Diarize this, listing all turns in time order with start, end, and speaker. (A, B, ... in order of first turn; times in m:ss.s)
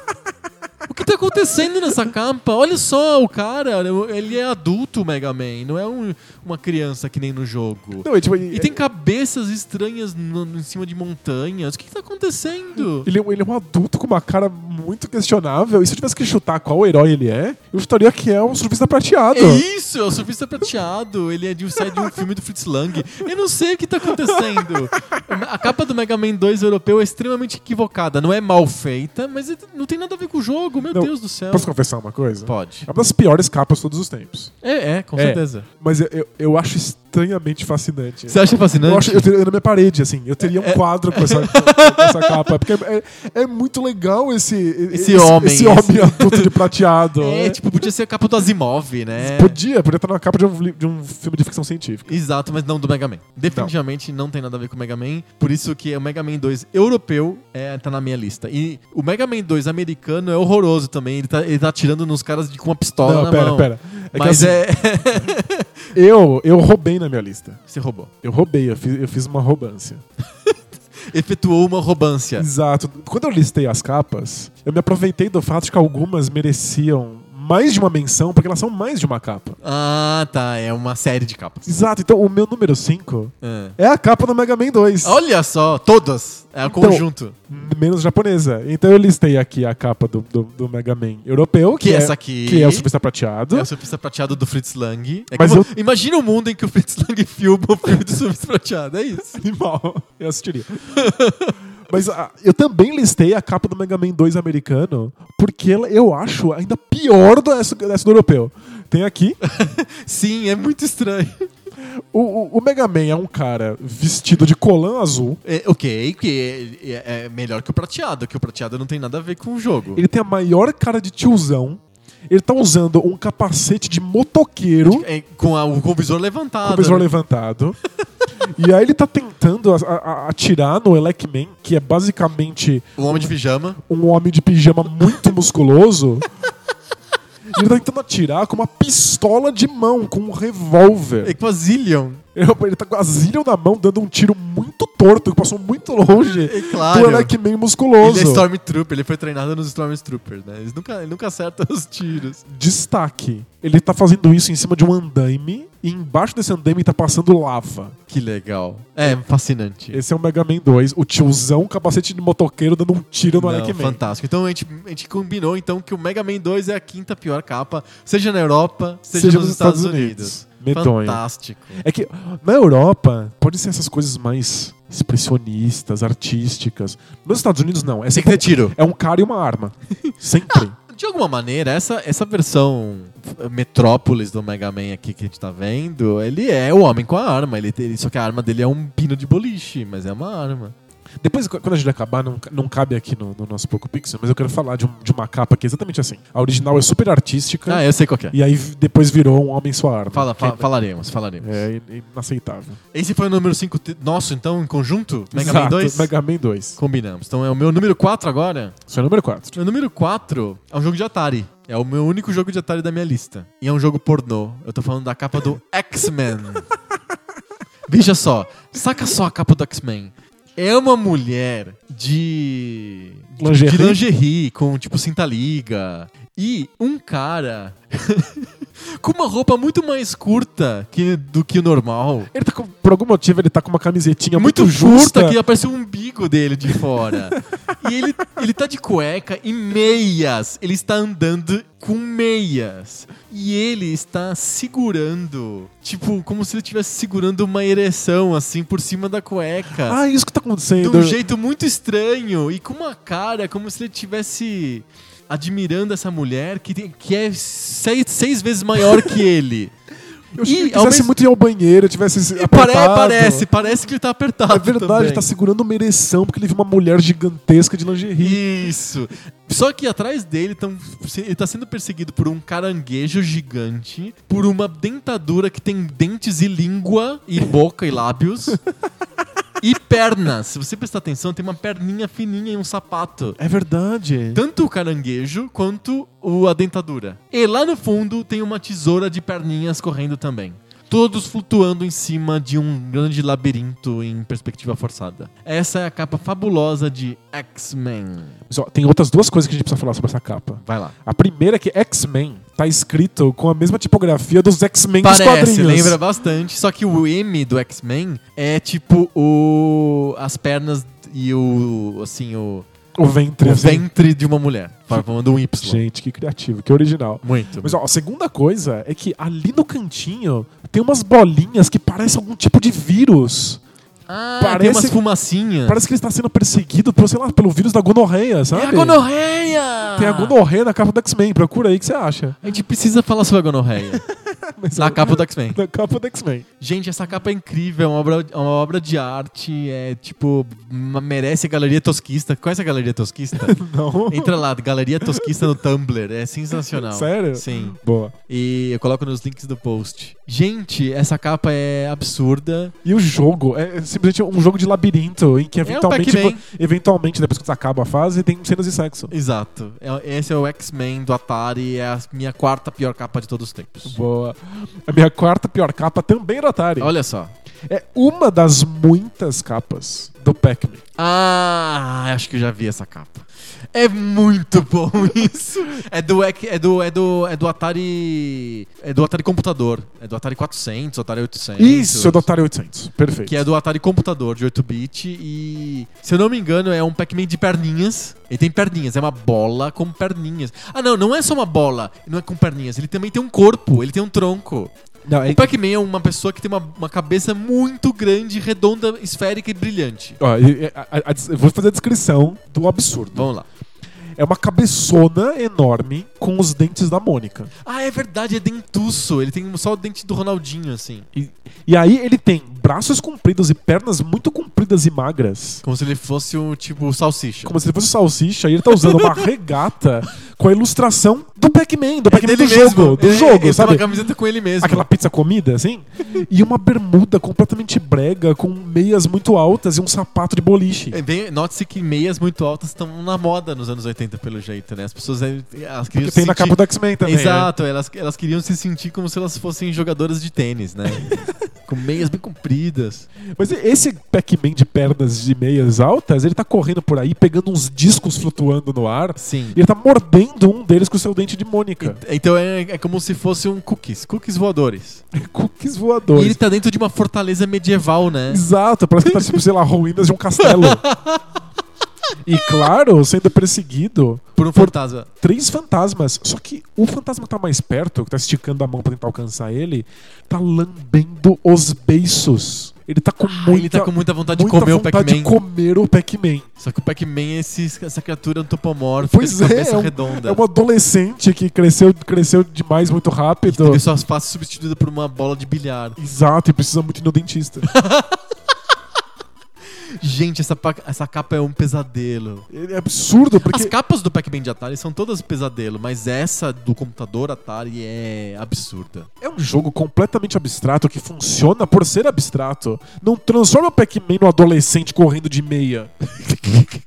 0:00.9-0:13.1 A
0:08.0-0:08.8 B
0:13.0-0:19.6 B
0:19.3-0:31.7 A
0:30.9-0:34.5 B
0:32.4-0:32.9 A
0:34.6-0:35.7 A
0:35.2-0:47.6 B
0:38.3-0:39.3 A
0:40.4-0:42.6 A
0:44.9-0:49.6 A
0:49.2-0:52.1 B
0:52.0-1:05.8 A
1:03.0-1:04.6 B
1:05.9-1:07.6 B
1:07.7-1:08.1 A
1:08.2-1:10.0 B
1:11.1-1:12.5 A
1:12.4-1:19.6 B
1:19.6-1:21.7 A
1:21.6-1:25.2 B
1:23.4-1:23.8 A
1:25.0-1:27.4 A
1:26.6-1:33.7 B
1:31.8-1:32.9 A
1:33.5-1:39.4 A
1:35.3-1:35.7 B
1:39.4-1:41.1 B
1:40.9-1:41.5 A
1:41.9-1:49.4 B
1:49.4-1:51.5 A
1:52.0-1:55.4 B
1:55.4-2:00.0 A
1:59.9-2:05.1 B
2:04.8-2:07.1 A
2:06.6-2:07.8 B
2:08.5-2:16.3 B
2:13.0-2:13.8 A
2:17.5-2:21.4 B
2:21.2-2:22.2 A
2:22.3-2:28.4 B
2:26.3-2:27.3 A
2:28.0-2:32.4 A
2:32.5-2:38.0 B
2:38.1-2:40.0 A
2:39.9-2:44.0 B
2:43.3-2:51.8 A
2:49.1-2:51.2 B
2:51.8-3:00.7 B
2:58.1-2:58.8 A
3:00.1-3:10.8 A
3:11.2-3:20.7 B
3:17.6-3:18.4 A
3:20.1-3:21.6 A
3:21.4-3:22.8 B
3:22.9-3:26.1 A
3:25.3-3:26.8 B
3:26.8-3:28.8 A
3:28.9-3:29.6 B
3:29.5-3:36.7 A
3:37.9-3:52.3 A
3:43.4-3:44.0 B
3:52.3-3:55.4 B
3:54.3-4:10.0 A
4:09.8-4:11.2 B
4:10.8-4:19.7 A
4:20.3-4:23.5 B
4:20.4-4:21.1 A
4:22.3-4:25.3 A
4:24.5-4:28.4 B
4:28.2-4:38.6 A
4:39.6-4:43.4 A
4:43.4-4:44.4 B
4:44.3-4:58.4 A
4:58.5-5:06.0 B
5:00.6-5:00.9 A
5:05.0-5:12.6 A
5:13.0-5:13.8 B
5:13.4-5:15.8 A
5:14.9-5:23.6 B
5:17.2-5:17.8 A
5:24.1-5:25.8 A
5:24.4-5:25.0 B
5:25.6-5:29.0 B
5:28.5-5:30.4 A
5:30.0-5:32.4 B
5:32.4-5:34.0 A
5:34.1-5:36.4 B
5:34.7-5:35.6 A
5:36.6-5:43.6 A
5:43.4-5:44.4 B
5:44.1-5:47.8 A
5:45.1-5:45.4 B
5:46.6-5:48.1 B
5:48.3-5:52.7 A
5:52.8-5:59.1 B
5:55.6-5:56.4 A
5:59.1-6:04.0 A
6:03.8-6:06.9 B
6:06.8-6:07.3 A
6:07.7-6:10.8 B
6:11.0-6:22.3 A
6:21.6-6:23.4 B
6:23.2-6:34.7 A
6:35.0-6:35.5 B
6:35.2-6:40.2 A
6:40.2-6:43.3 B
6:43.1-6:43.4 A
6:44.2-6:47.5 B
6:47.6-6:51.1 A
6:51.1-6:55.6 B
6:55.6-6:57.6 A
6:57.4-7:03.8 B
6:58.8-6:59.2 A
7:02.1-7:04.8 A
7:04.6-7:11.0 B
7:10.9-7:23.1 A
7:15.9-7:17.5 B
7:23.4-7:32.0 B
7:29.2-7:29.6 A
7:31.8-7:35.0 A
7:35.1-7:36.4 B
7:36.1-7:38.4 A
7:38.3-7:40.8 B
7:39.1-7:39.4 A
7:40.4-7:41.2 A
7:42.2-7:56.4 B
7:44.4-7:45.1 A
7:53.2-7:55.3 A
7:56.6-8:00.4 A
7:59.0-8:03.8 B
8:03.5-8:06.0 A
8:06.0-8:07.7 B
8:07.6-8:08.2 A
8:10.0-8:12.5 A
8:12.5-8:13.7 B
8:13.4-8:19.1 A
8:19.2-8:26.6 B